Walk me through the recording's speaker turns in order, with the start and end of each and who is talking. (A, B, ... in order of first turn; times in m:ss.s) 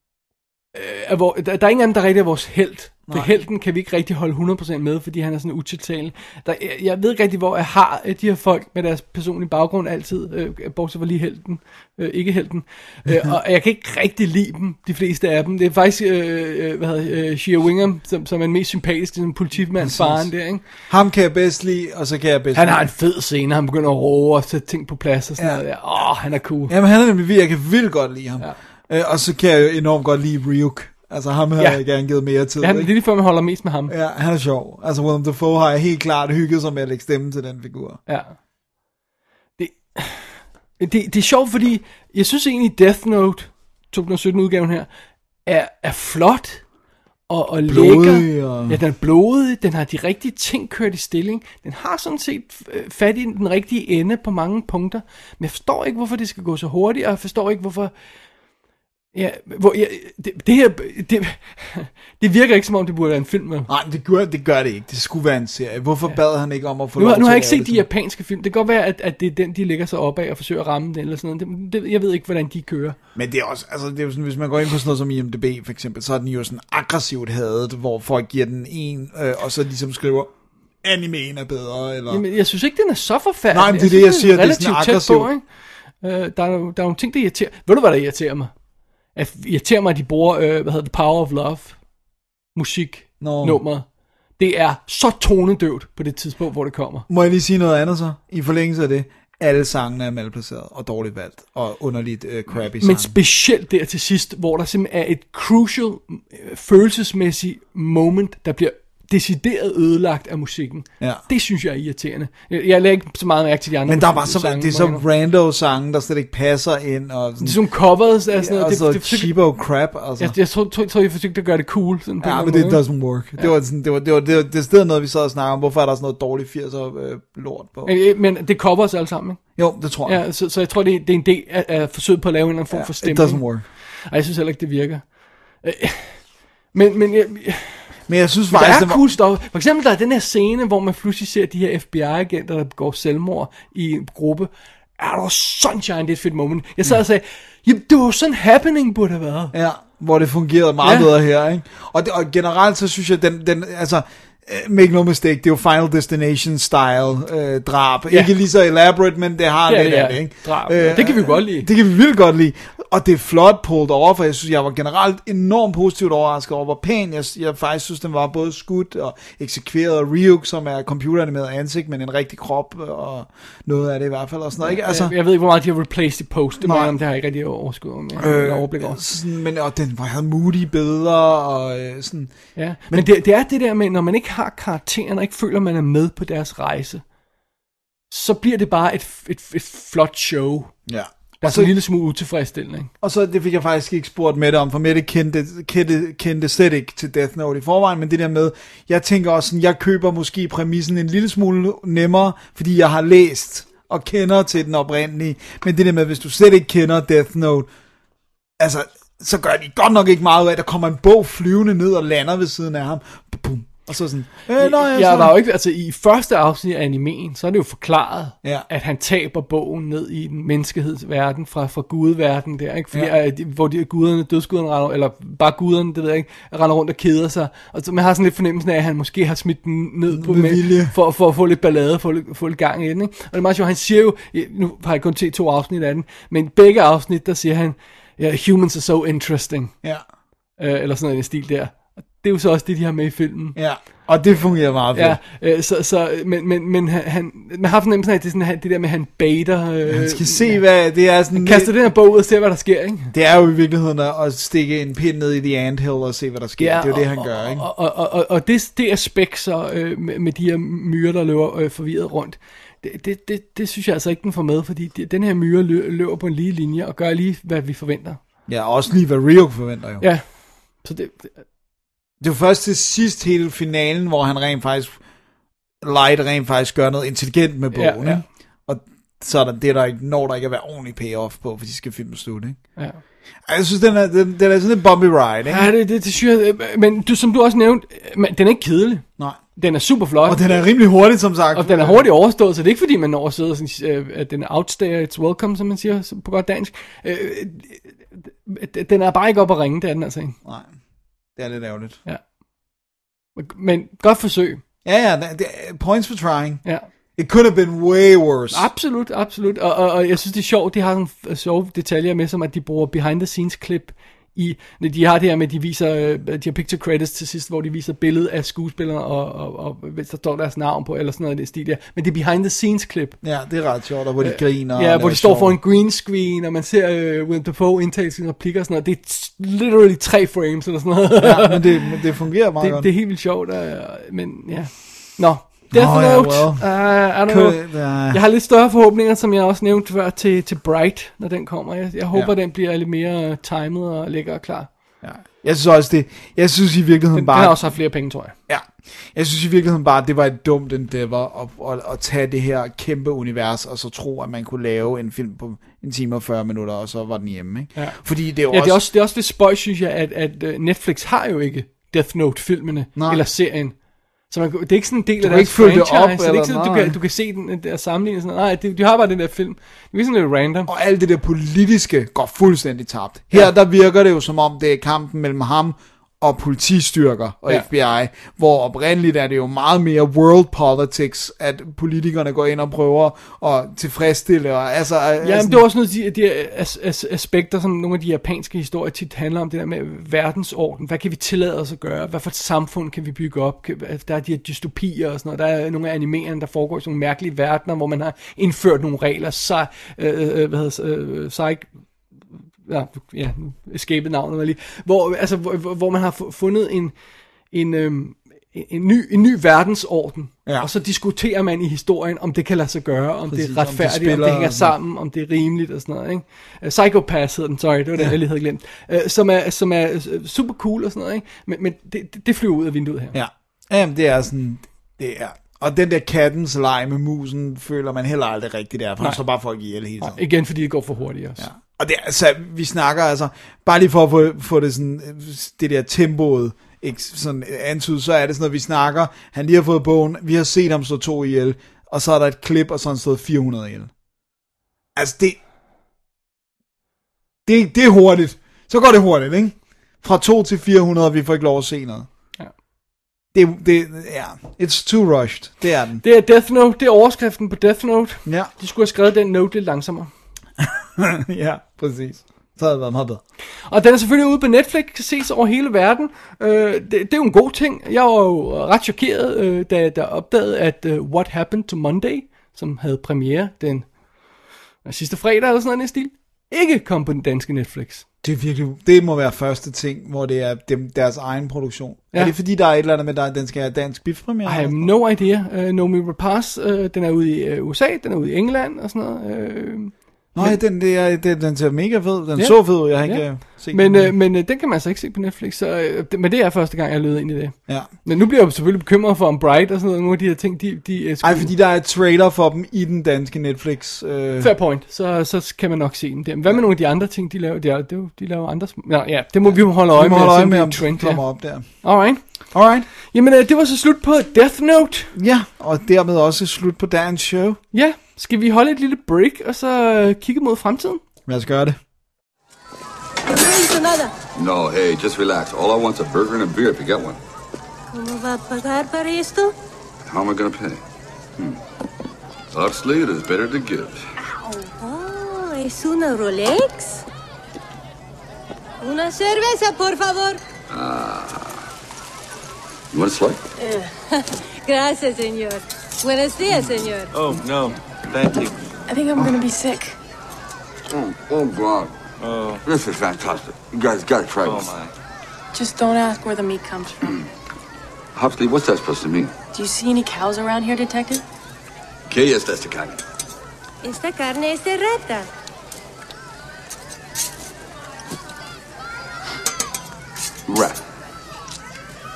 0:00.7-0:20.7 A
0:13.1-0:13.3 B
0:19.8-0:22.8 B
0:22.5-0:26.7 A
0:25.4-0:25.7 B
0:26.7-0:32.9 B
0:32.6-0:33.9 A
0:33.9-0:38.0 B
0:38.1-0:38.4 A
0:39.6-0:44.9 A
0:45.5-0:46.6 A
0:47.3-0:57.9 A
0:47.7-0:48.8 B
0:59.1-1:03.7 A
1:03.7-1:07.9 B
1:07.0-1:13.0 A
1:13.2-1:22.2 B
1:22.1-1:28.5 A
1:23.5-1:25.3 B
1:29.1-1:31.8 A
1:32.6-1:33.9 A
1:33.2-1:33.6 B
1:34.4-1:37.1 A
1:37.1-1:43.2 B
1:42.8-1:55.0 A
1:53.9-2:00.4 B
1:57.4-1:59.3 A
2:00.2-2:02.8 A
2:02.2-2:08.0 B
2:07.8-2:29.5 A
2:09.6-2:10.2 B
2:12.7-2:13.6 B
2:18.1-2:19.0 B
2:29.5-2:55.2 B
2:30.8-2:31.1 A
2:39.7-2:41.7 A
2:54.6-2:59.0 A
2:56.6-2:57.0 B
2:58.2-3:03.1 B
3:02.6-3:07.0 A
3:08.1-3:10.9 A
3:10.9-3:11.7 B
3:11.4-3:12.9 A
3:13.0-3:27.7 B
3:28.6-3:35.3 B
3:34.6-3:59.8 A
3:50.1-3:51.0 B
4:00.6-4:03.6 A
4:03.6-4:05.2 B
4:04.9-4:10.8 A
4:09.9-4:11.8 B
4:11.3-4:13.1 A
4:13.1-4:17.6 B
4:16.6-4:28.2 A
4:28.5-4:30.1 B
4:30.0-4:31.4 A
4:32.2-4:35.0 B
4:35.8-4:42.8 B
4:37.7-4:38.2 A
4:42.8-4:43.0 A
4:43.5-4:45.7 B
4:45.5-4:50.6 A
4:50.2-4:52.1 B
4:51.5-5:00.4 A
5:00.4-5:00.8 B
5:01.3-5:02.0 B
5:03.4-5:04.6 A
5:04.8-5:06.6 B
5:07.2-5:08.7 B
5:08.5-5:23.2 A
5:23.2-5:25.6 B
5:24.2-5:32.0 A
5:31.2-5:32.9 B
5:32.6-5:44.7 A
5:35.7-5:38.2 B
5:45.0-5:47.9 B
5:47.1-5:48.4 A
5:48.5-5:58.8 B
5:57.8-6:10.7 A
6:03.0-6:03.2 B
6:05.2-6:07.0 B
6:10.7-6:25.6 B
6:25.2-6:41.7 A
6:42.6-7:03.2 A
6:53.3-6:54.8 B
7:03.1-7:10.2 B
7:10.0-7:11.5 A
7:11.4-7:23.9 B
7:25.0-7:25.4 B
7:27.5-7:32.1 B
7:33.3-7:36.0 B
7:36.0-7:40.1 A
7:38.3-7:38.5 B
7:40.6-7:43.2 B
7:43.7-7:54.0 A
7:54.8-7:58.1 A
7:58.2-8:04.9 B
8:04.4-8:10.6 A
8:10.3-8:14.2 B
8:12.4-8:21.5 A
8:21.2-8:24.5 B
8:24.4-8:35.1 A
8:29.4-8:32.9 B
8:35.1-8:37.6 B
8:37.7-8:41.0 A
8:41.3-8:41.8 B
8:43.3-8:44.1 C
8:44.4-8:47.2 D
8:47.9-8:49.5 C
8:50.1-8:50.8 D
8:52.5-8:54.1 D
8:54.2-8:57.0 C
8:58.8-9:00.4 C
9:00.7-9:01.6 D
9:02.9-9:03.4 D
9:03.6-9:07.1 C
9:07.1-9:08.6 E
9:08.9-9:10.0 F
9:10.9-9:11.9 D
9:12.2-9:12.6 E
9:12.7-9:14.8 D
9:14.4-9:14.9 E
9:15.5-9:17.2 F
9:18.2-9:19.3 D
9:19.5-9:21.2 F
9:22.1-9:23.0 D
9:23.8-9:25.3 C
9:30.5-9:30.8 D